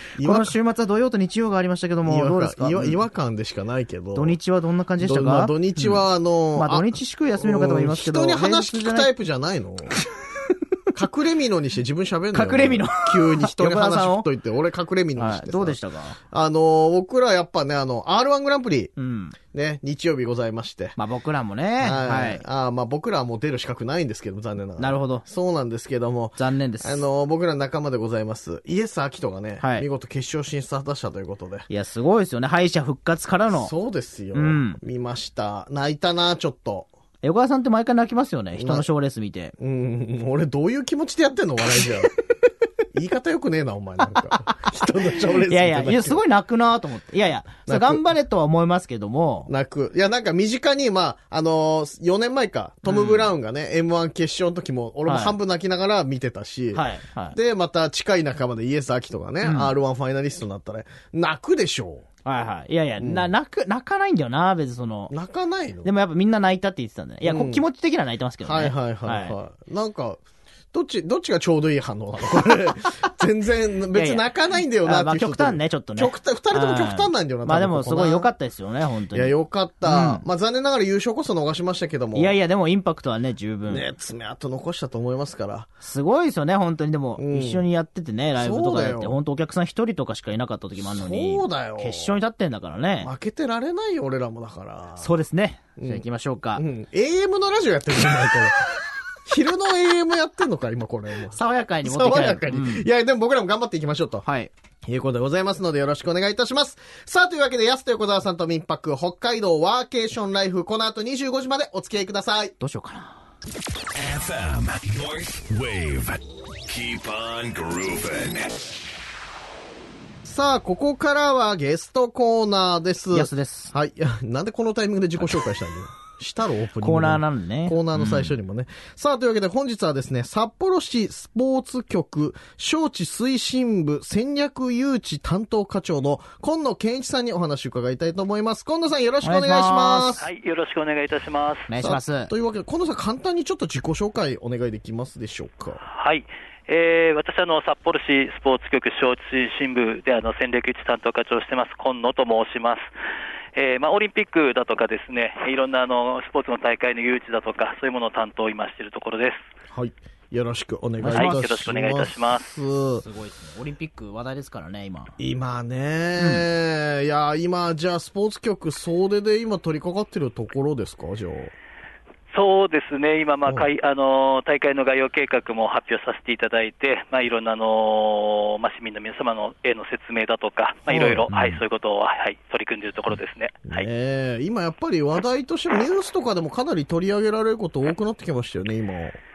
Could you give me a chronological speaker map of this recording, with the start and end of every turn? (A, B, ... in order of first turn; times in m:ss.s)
0:00.2-0:00.6 A
0:00.2-0:03.0 B
0:02.0-0:04.4 A
0:04.1-0:06.0 B
0:05.0-0:09.9 A
0:06.6-0:09.1 B
0:10.9-0:15.8 A
0:12.3-0:14.3 B
0:15.2-0:16.2 B
0:16.3-0:18.9 A
0:19.0-0:19.4 B
0:19.5-0:21.0 A
0:21.0-0:22.4 B
0:21.8-0:31.7 A
0:24.8-0:25.2 B
0:26.4-0:27.0 B
0:29.6-0:29.9 B
0:31.7-0:33.7 B
0:33.5-0:36.9 A
0:34.3-0:34.8 B
0:37.2-0:39.5 B
0:38.6-0:38.8 A
0:39.6-0:42.1 A
0:42.9-0:46.2 A
0:45.4-0:49.5 B
0:47.6-0:48.1 A
0:49.5-1:02.0 A
0:52.8-0:53.3 B
0:55.0-0:55.4 B
0:56.7-0:57.4 B
0:59.4-0:59.7 B
1:02.2-1:05.1 B
1:03.0-1:03.3 A
1:05.1-1:05.9 A
1:05.8-1:09.4 B
1:07.2-1:07.6 A
1:08.4-1:10.2 A
1:10.7-1:18.3 A
1:13.9-1:14.3 B
1:14.8-1:20.2 B
1:19.1-1:22.4 A
1:22.1-1:23.8 B
1:23.7-1:25.7 A
1:25.8-1:33.1 B
1:27.2-1:27.6 A
1:28.4-1:29.2 A
1:30.8-1:32.2 A
1:33.0-1:35.1 A
1:35.0-1:36.6 B
1:35.8-1:36.0 A
1:36.6-1:44.2 A
1:41.3-1:42.8 B
1:44.2-1:44.5 B
1:44.8-1:52.5 A
1:52.6-1:53.2 B
1:53.9-1:58.6 C
2:00.2-2:20.3 A
2:03.1-2:03.7 B
2:06.8-2:08.3 B
2:19.2-2:20.2 B
2:20.2-2:21.7 D
2:21.7-2:22.3 B
2:21.8-2:25.8 A
2:25.8-2:32.9 D
2:33.5-2:39.4 D
2:39.7-2:43.0 A
2:41.0-2:41.4 B
2:41.1-2:42.6 D
2:42.9-2:45.1 B
2:45.2-2:51.5 A
2:46.2-2:46.4 B
2:52.3-3:03.9 D
3:00.9-3:01.3 A
3:01.3-3:01.6 B
3:03.7-3:09.2 A